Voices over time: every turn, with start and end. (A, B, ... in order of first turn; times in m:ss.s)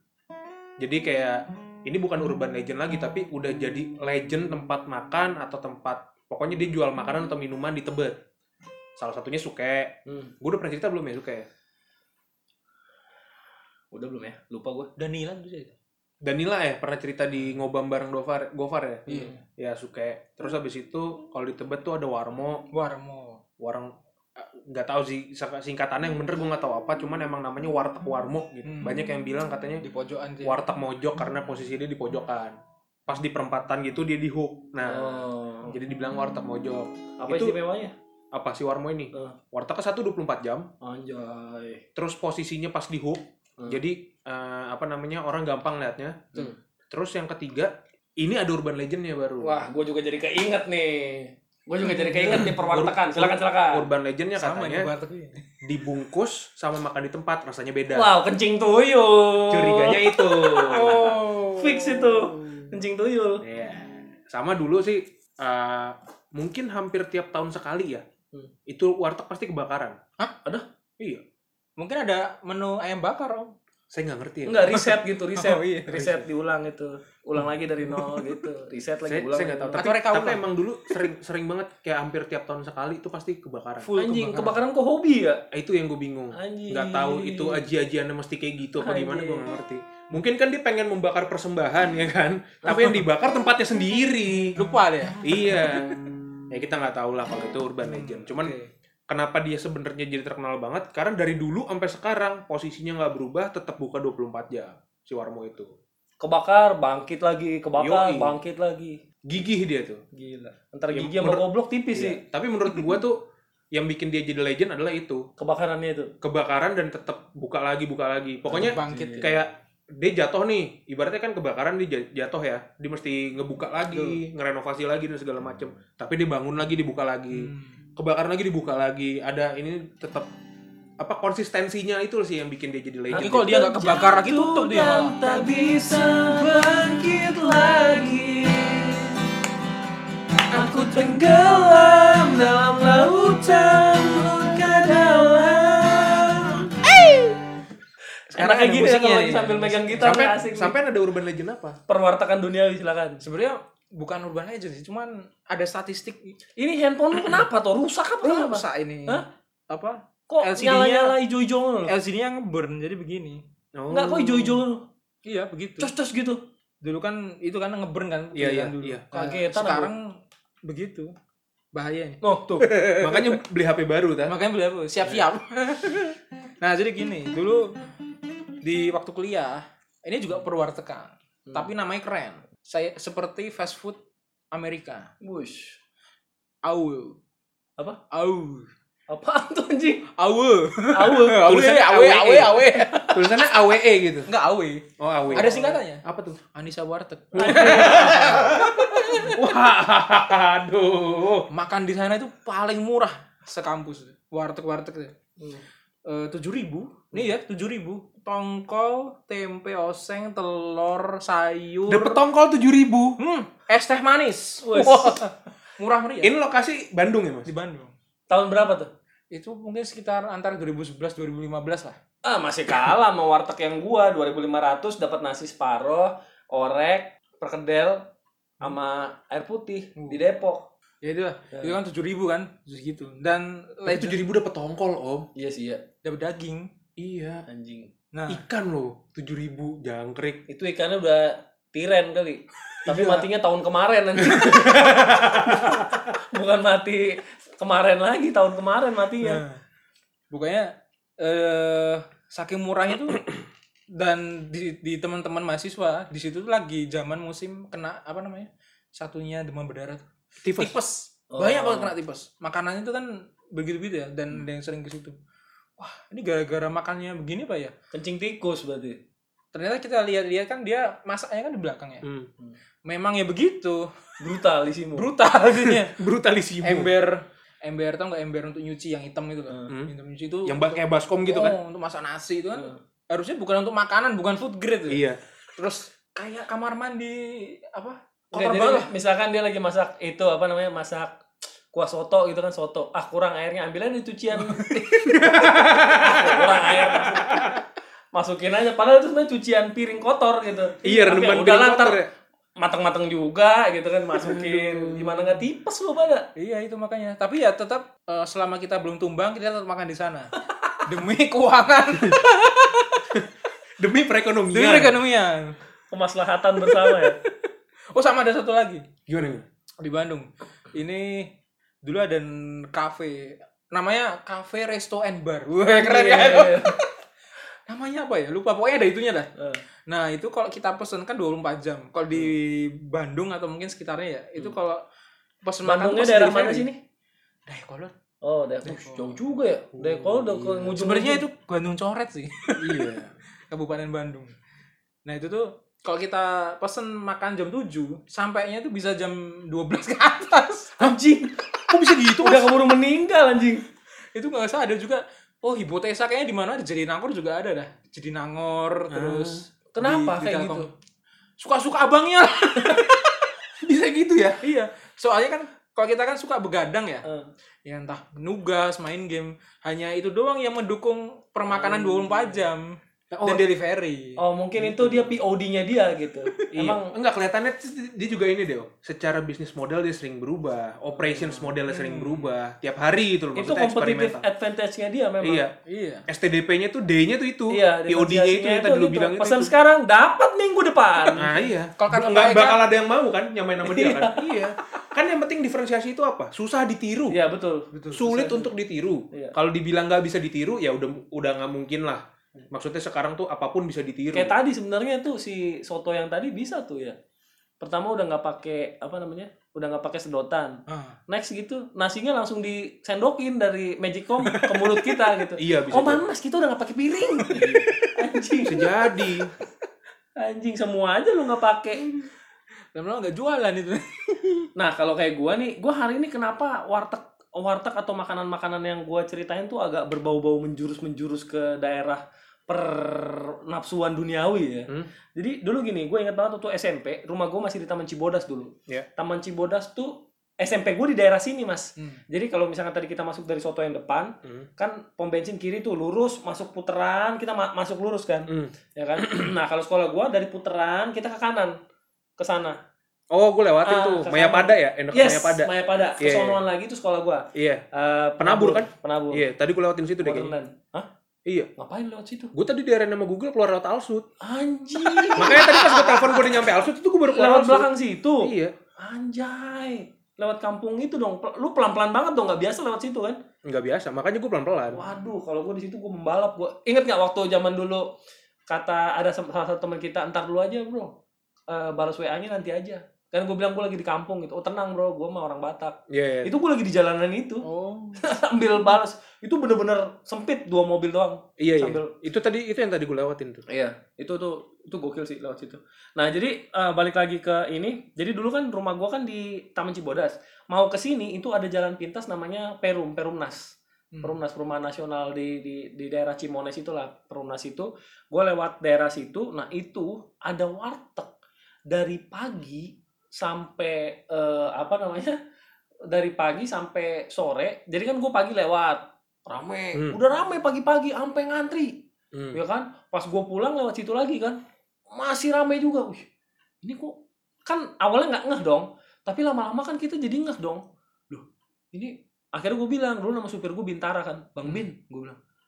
0:00.8-0:08.2 A
0:09.0-0:11.5 A
0:10.0-0:10.3 B
0:13.9-0:14.9 B
0:15.0-0:15.7 C
0:16.2-0:22.6 A
0:19.1-0:19.4 C
0:19.1-0:19.3 B
0:22.7-0:23.4 C
0:23.6-0:29.8 A
0:28.6-0:29.1 C
0:29.8-0:30.6 C
0:30.4-0:37.6 A
0:34.8-0:35.8 B
0:37.2-0:37.9 B
0:38.3-0:40.7 A
0:40.8-0:41.8 B
0:42.0-0:46.3 A
0:46.9-0:49.6 A
0:49.4-0:53.9 B
0:51.8-0:52.6 C
0:52.3-0:54.9 A
0:54.4-0:55.5 C
0:55.6-0:58.1 A
0:57.9-1:03.4 B
0:59.5-1:01.1 A
1:00.7-1:02.7 C
1:03.4-1:08.0 A
1:08.7-1:10.0 A
1:11.8-1:13.5 C
1:13.9-1:14.7 A
1:14.4-1:19.8 B
1:14.7-1:16.2 C
1:17.9-1:18.4 C
1:19.1-1:23.9 A
1:19.8-1:21.0 C
1:23.8-1:24.6 C
1:23.9-1:25.4 B
1:25.5-1:38.5 A
1:26.3-1:27.6 B
1:28.8-1:29.4 B
1:32.6-1:33.0 C
1:34.5-1:35.9 C
1:37.8-1:38.7 C
1:39.1-1:45.7 A
1:46.2-1:49.0 B
1:47.8-1:48.4 A
1:49.2-1:50.0 A
1:50.1-1:52.2 B
1:50.9-1:53.2 A
1:53.7-1:55.3 A
1:55.4-1:56.1 B
1:56.2-2:10.3 A
1:58.5-1:59.4 C
1:58.6-1:59.3 B
2:03.9-2:04.2 C
2:07.3-2:07.8 C
2:11.0-2:13.5 A
2:13.1-2:19.2 B
2:13.1-2:15.2 C
2:20.5-2:26.7 B
2:23.7-2:24.0 A
2:28.3-2:30.8 B
2:28.4-2:31.8 A
2:29.6-2:30.1 C
2:31.9-2:33.2 B
2:33.2-2:36.4 C
2:36.6-2:39.2 B
2:38.2-2:41.2 C
2:40.3-2:41.9 B
2:41.9-2:43.4 C
2:43.7-2:44.6 A
2:43.9-2:44.8 B
2:45.2-2:45.9 C
2:45.8-2:46.4 B
2:46.8-2:51.1 C
2:48.3-2:49.0 A
2:49.1-2:49.9 B
2:51.7-2:53.4 C
2:52.2-2:52.7 B
2:53.0-2:54.3 A
2:54.2-2:57.7 C
2:58.6-3:04.0 C
3:04.5-3:05.1 C
3:05.2-3:05.8 B
3:06.6-3:07.2 C
3:08.1-3:08.7 C
3:09.1-3:10.1 B
3:10.1-3:13.6 C
3:10.9-3:11.6 B
3:11.4-3:14.3 A
3:14.2-3:19.4 C
3:15.0-3:16.4 A
3:15.3-3:15.8 B
3:17.3-3:21.5 A
3:17.4-3:18.4 B
3:21.5-3:25.1 C
3:25.4-3:25.6 B
3:26.0-3:32.2 C
3:31.9-3:33.2 A
3:33.2-3:36.3 C
3:34.6-3:35.2 B
3:36.2-3:37.5 A
3:37.4-3:37.9 C
3:38.3-3:38.9 B
3:39.3-3:42.0 C
3:42.2-3:48.1 B
3:48.6-3:50.7 B
3:50.0-3:50.2 C
3:51.0-3:54.2 C
3:51.5-3:51.8 B
3:53.8-3:55.3 A
3:55.3-3:55.8 B
3:56.0-3:56.7 C
3:57.0-3:57.4 A
3:57.5-3:57.9 B
3:58.1-3:58.4 C
3:58.3-4:00.4 A
4:00.5-4:09.4 B
4:02.9-4:03.2 A
4:04.3-4:05.9 A
4:09.2-4:09.6 C
4:10.3-4:13.3 C
4:13.9-4:20.0 C
4:20.4-4:20.8 A
4:20.6-4:25.2 C
4:21.3-4:21.9 B
4:25.8-4:27.7 C
4:27.9-4:29.0 B
4:29.5-4:32.0 C
4:32.0-4:32.3 A
4:32.8-4:34.0 C
4:34.2-4:35.1 B
4:35.0-4:36.0 C
4:35.6-4:36.9 A
4:36.6-4:45.0 C
4:40.4-4:41.6 A
4:44.9-4:45.2 A
4:45.6-4:48.9 C
4:48.3-4:51.2 B
4:51.7-4:55.0 B
4:54.3-4:56.8 C
4:55.1-4:56.0 A
4:55.9-4:57.5 B
4:58.1-5:02.0 B
5:00.8-5:02.1 A
5:02.6-5:06.3 B
5:04.2-5:05.4 A
5:06.4-5:10.3 C
5:10.4-5:10.8 B
5:10.8-5:13.1 C
5:13.8-5:15.0 A
5:14.5-5:15.6 C
5:15.9-5:17.2 B
5:16.6-5:19.0 C
5:19.1-5:19.4 A
5:19.8-5:21.3 C
5:21.8-5:26.9 C
5:25.7-5:26.8 B
5:27.7-5:29.3 C
5:29.4-5:29.6 B
5:29.9-5:34.8 C
5:35.4-5:36.7 C
5:35.6-5:36.8 B
5:37.5-5:37.9 C
5:38.2-5:41.2 B
5:38.6-5:39.2 C
5:39.7-5:40.7 A
5:40.8-5:43.0 C
5:42.6-5:43.1 A
5:43.5-5:44.4 C
5:45.0-5:50.9 C
5:50.8-5:51.5 B
5:51.7-5:52.5 A
5:52.2-5:53.6 B
5:54.1-6:00.7 C
5:58.9-5:59.4 A
5:59.7-6:00.7 B
6:01.4-6:03.3 C
6:03.6-6:04.4 A
6:04.4-6:07.0 C
6:07.0-6:07.3 B
6:07.6-6:14.2 C
6:11.5-6:12.4 B
6:13.1-6:13.4 A
6:14.2-6:16.9 B
6:16.5-6:24.2 A
6:21.2-6:22.3 C
6:23.4-6:25.5 B
6:25.2-6:25.5 A
6:25.6-6:26.0 C
6:26.1-6:29.5 A
6:27.5-6:31.2 B
6:31.1-6:32.6 C
6:31.2-6:37.2 A
6:33.6-6:34.2 B
6:37.1-6:38.5 B
6:37.7-6:38.0 C
6:37.9-6:44.3 A
6:44.1-6:47.0 B
6:47.6-6:58.7 B
6:50.7-6:51.0 C
6:54.2-6:55.1 C
6:55.4-6:56.0 A
6:57.3-6:57.9 C
6:57.4-6:57.8 A
6:58.4-6:59.3 A
7:00.2-7:01.9 B
7:02.7-7:04.5 C
7:04.6-7:31.6 B
7:28.3-7:29.2 A
7:32.2-7:32.6 B
7:33.1-7:36.4 A
7:33.6-7:39.3 B
7:37.3-7:37.6 A
7:38.2-7:40.3 A
7:40.0-7:40.9 B
7:41.6-7:42.3 B
7:42.3-7:44.1 A
7:44.2-7:46.3 B
7:45.1-7:47.7 A
7:47.1-7:53.2 B
7:48.2-7:48.5 A
7:53.4-7:54.9 A
7:54.7-7:57.9 B
7:58.5-8:01.0 B
8:01.5-8:07.4 B
8:05.9-8:06.3 A
8:07.4-8:08.0 C
8:08.0-8:11.9 B
8:11.4-8:13.4 A
8:13.5-8:31.1 B
8:31.7-8:35.2 B
8:35.9-8:41.8 B
8:42.1-8:42.4 A
8:42.3-8:44.4 B
8:44.9-8:46.0 B
8:46.6-8:55.2 B